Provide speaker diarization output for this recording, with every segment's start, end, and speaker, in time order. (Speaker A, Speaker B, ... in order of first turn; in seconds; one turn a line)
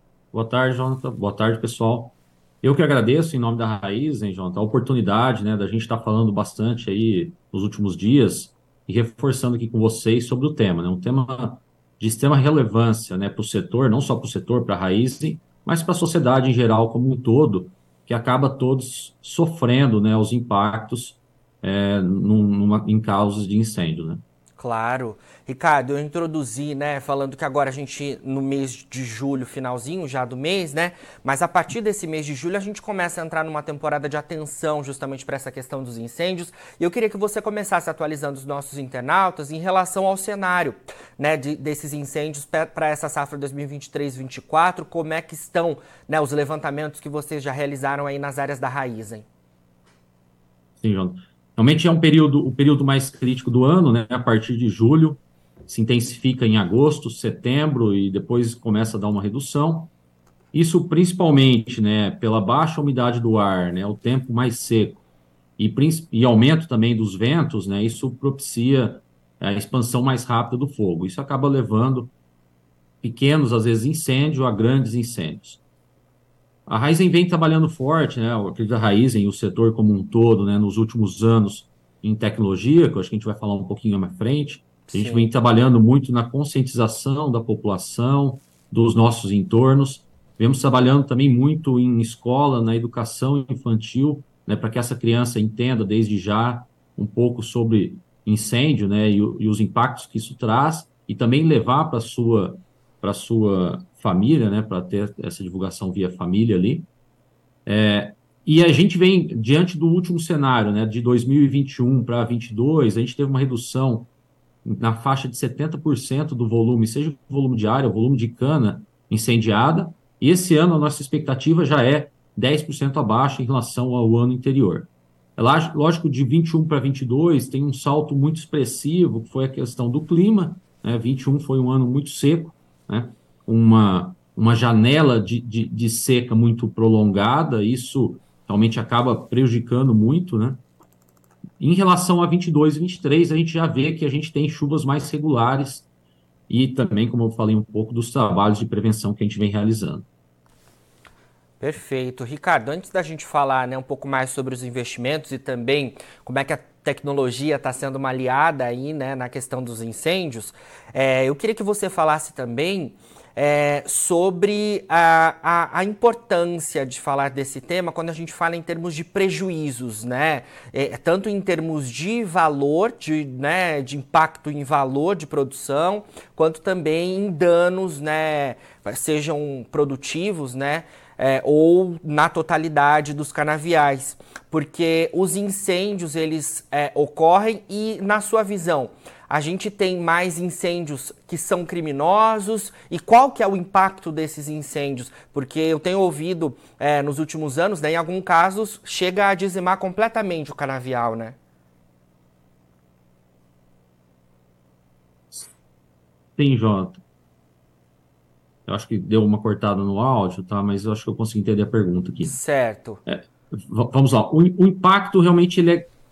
Speaker A: 0.3-24.2
Speaker B: 24.6-49.3
Speaker A: 50.8-59.9
Speaker A: 60.5-65.0
Speaker A: 65.6-72.1
Speaker A: 73.0-75.6
Speaker A: 76.7-106.9
Speaker B: 84.9-85.3
Speaker A: 107.7-114.1
Speaker A: 114.7-140.6
Speaker A: 141.6-145.9
Speaker A: 146.5-150.1
Speaker B: 151.6-201.4
Speaker A: 206.4-207.0
Speaker A: 208.7-212.4
Speaker B: 212.2-213.0
Speaker A: 213.1-215.9